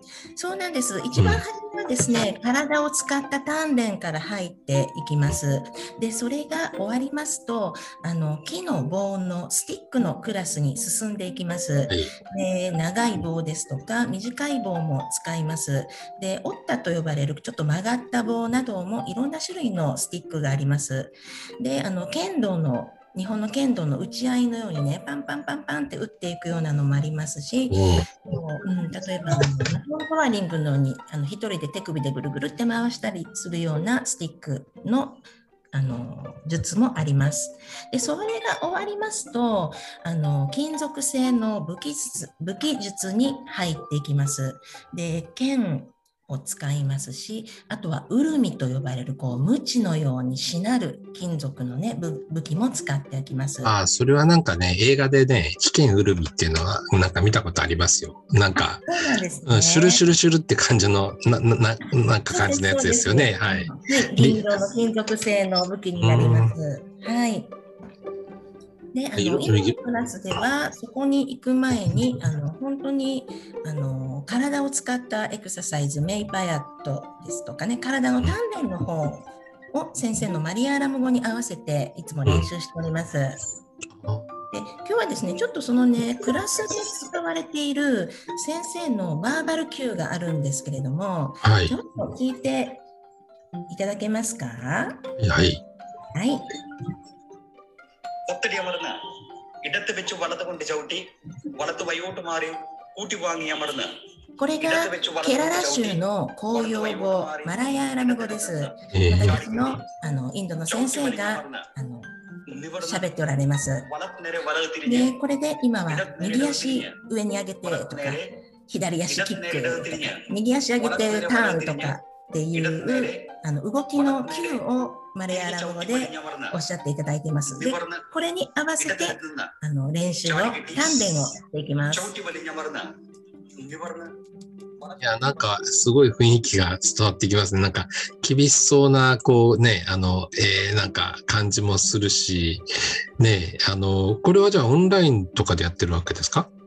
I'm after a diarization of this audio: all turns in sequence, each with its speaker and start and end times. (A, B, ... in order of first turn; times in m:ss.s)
0:00.4-0:53.8 A
0:01.2-0:01.4 B
0:27.7-0:28.2 B
0:53.6-0:58.8 B
0:58.6-1:00.0 A
0:59.5-1:04.4 B
1:02.3-1:07.5 A
1:06.0-1:06.5 B
1:08.9-1:23.4 A
1:09.2-1:09.8 B
1:24.0-1:24.3 B
1:24.5-1:32.8 A
1:31.4-1:31.8 B
1:33.7-1:35.0 A
1:35.2-1:35.6 B
1:36.1-1:36.5 A
1:38.3-1:39.0 C
1:39.6-1:44.0 C
1:44.4-1:52.1 A
1:44.6-1:46.0 C
1:46.5-1:49.8 C
1:48.9-1:49.4 B
1:50.7-1:51.7 C
1:52.5-1:53.0 C
1:52.8-1:53.9 A
1:53.9-1:55.1 C
1:54.8-2:12.1 A
1:55.9-1:57.0 C
1:57.6-1:58.3 C
1:59.1-2:02.0 C
2:02.5-2:03.3 C
2:04.0-2:04.6 C
2:05.3-2:06.6 C
2:07.5-2:08.1 C
2:08.8-2:09.5 C
2:10.2-2:11.3 C
2:11.9-2:13.0 C
2:13.6-2:14.2 C
2:15.0-2:22.6 B
2:23.2-2:26.5 B